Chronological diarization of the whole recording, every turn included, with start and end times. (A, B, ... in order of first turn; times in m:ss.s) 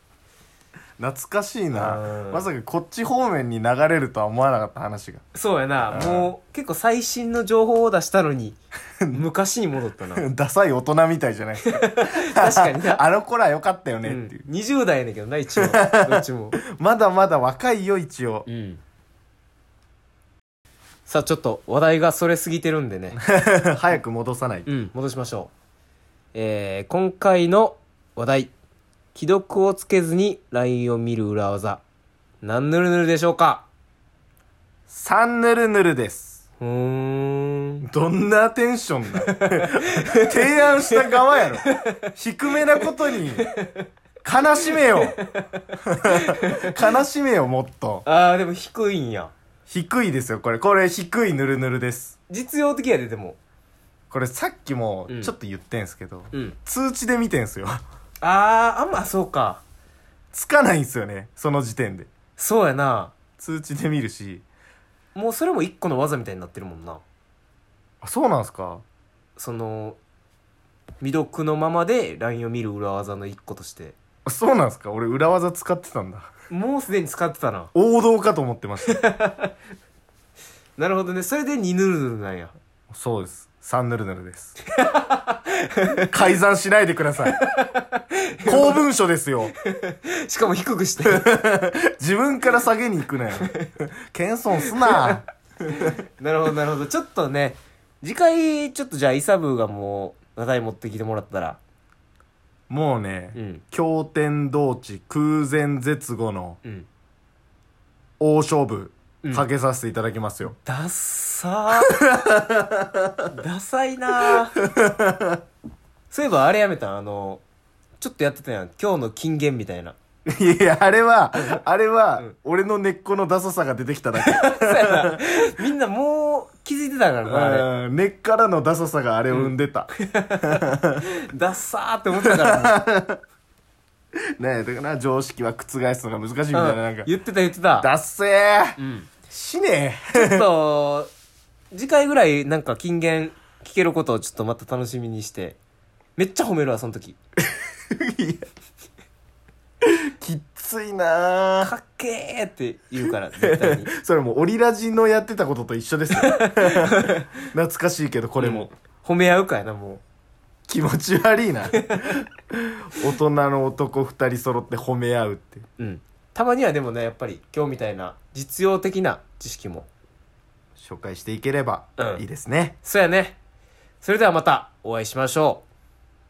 0:01.0-0:05.2 A
0:01.7-0:02.5 B
0:05.3-0:08.6 B
0:05.9-0:06.3 A
0:09.1-0:10.3 B
0:10.2-0:14.4 A
0:11.6-0:13.0 B
0:14.0-0:16.6 B
0:15.6-0:18.5 A
0:18.5-0:18.8 B
0:21.1-0:23.2 B
0:23.1-0:24.7 A
0:24.7-0:25.5 B
0:26.3-0:28.5 B
0:29.1-0:31.8 B
0:32.4-0:33.7 B
0:34.9-0:36.4 A
0:36.6-0:37.9 B
0:37.8-0:43.5 A
0:39.2-0:42.1 B
0:42.7-0:43.9 B
0:44.2-0:45.2 A
0:44.9-0:46.8 B
0:45.8-0:48.0 A
0:48.0-0:49.3 B
0:49.7-0:52.2 A
0:52.3-0:53.4 B
0:54.1-0:57.8 A
0:55.1-0:55.3 B
0:58.2-0:59.6 B
1:00.3-1:02.1 A
1:02.4-1:03.1 B
1:03.4-1:04.4 A
1:05.2-1:07.0 B
1:08.0-1:08.8 A
1:09.4-1:10.0 B
1:11.0-1:14.0 B
1:14.3-1:16.3 A
1:16.5-1:17.7 B
1:17.7-1:19.0 A
1:18.9-1:19.5 B
1:20.8-1:22.5 B
1:22.9-1:24.6 A
1:24.7-1:26.1 B
1:26.1-1:27.4 A
1:27.3-1:28.8 B
1:28.4-1:29.5 A
1:29.6-1:31.3 B
1:31.0-1:35.3 A
1:33.4-1:33.7 B
1:34.6-1:35.2 B
1:35.7-1:41.6 B
1:42.7-1:46.6 A
1:43.4-1:43.6 B
1:48.2-1:50.6 A
1:50.6-1:52.0 B
1:51.9-1:53.3 A
1:53.3-1:54.6 B
1:54.3-1:55.4 A
1:56.1-1:57.4 B
1:58.0-2:00.0 B
2:00.3-2:05.2 A
2:04.2-2:07.7 B
2:07.2-2:11.0 A
2:09.3-2:12.8 B
2:12.2-2:13.2 A
2:14.4-2:17.1 A
2:16.5-2:17.9 B
2:17.8-2:18.8 A
2:18.8-2:19.1 B
2:19.3-2:20.5 A
2:20.1-2:21.1 B
2:21.7-2:25.6 B
2:26.2-2:27.2 B
2:27.6-2:28.5 A
2:29.8-2:31.7 A
2:31.6-2:33.9 B
2:33.4-2:38.7 A
2:36.1-2:37.3 B
2:38.4-2:40.0 B
2:40.7-2:45.7 A
2:41.7-2:42.1 B
2:45.8-2:49.9 B
2:50.8-2:52.8 A
2:52.0-2:52.2 B
2:52.8-2:53.4 B
2:54.0-2:55.6 B